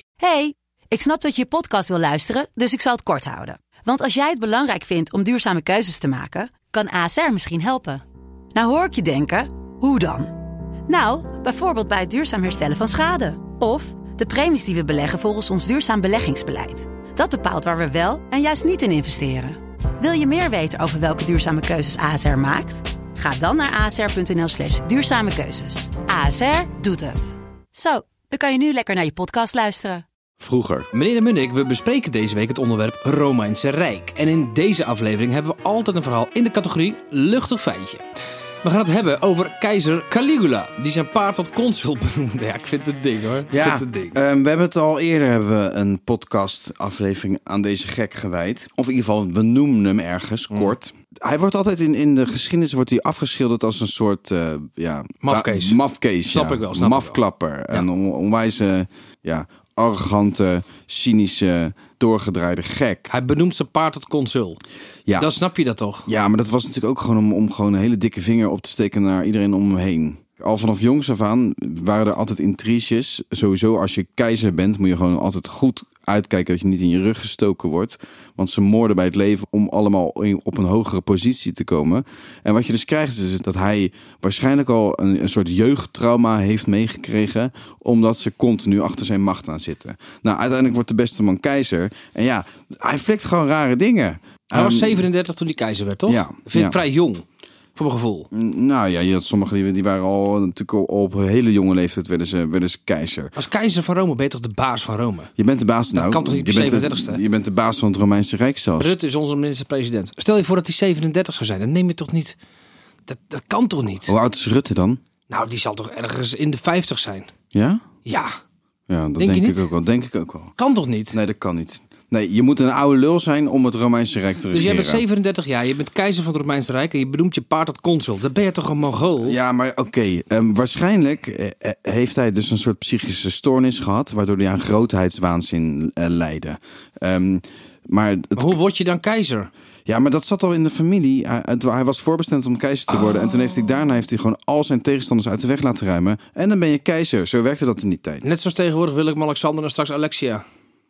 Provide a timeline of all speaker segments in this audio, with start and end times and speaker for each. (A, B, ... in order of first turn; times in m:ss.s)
0:00.2-0:08.0 A
0:08.5-0:10.4 A
0:10.9-0:30.0 A
0:30.4-0:30.9 B
0:30.9-0:38.0 C
0:38.6-0:44.2 C
0:43.5-1:03.1 B
0:55.2-0:57.2 C
1:03.1-1:04.6 C
1:05.2-1:06.0 C
1:06.0-1:35.1 B
1:34.5-1:37.2 C
1:36.1-1:36.8 B
1:37.8-1:38.3 C
1:38.3-1:43.3 B
1:43.4-1:45.3 C
1:45.4-1:48.9 B
1:45.9-1:47.2 C
1:48.8-1:52.4 C
1:53.1-1:54.1 C
1:54.1-1:55.0 B
1:55.3-1:57.3 C
1:57.5-1:57.9 B
1:58.0-1:58.4 C
1:58.9-2:00.5 B
1:59.2-1:59.6 C
2:00.6-2:01.2 C
2:01.1-2:05.0 B
2:04.5-2:09.4 C
2:09.2-2:18.6 B
2:18.4-2:19.5 C
2:19.8-2:28.3 B
2:22.9-2:23.8 C
2:28.2-2:30.4 C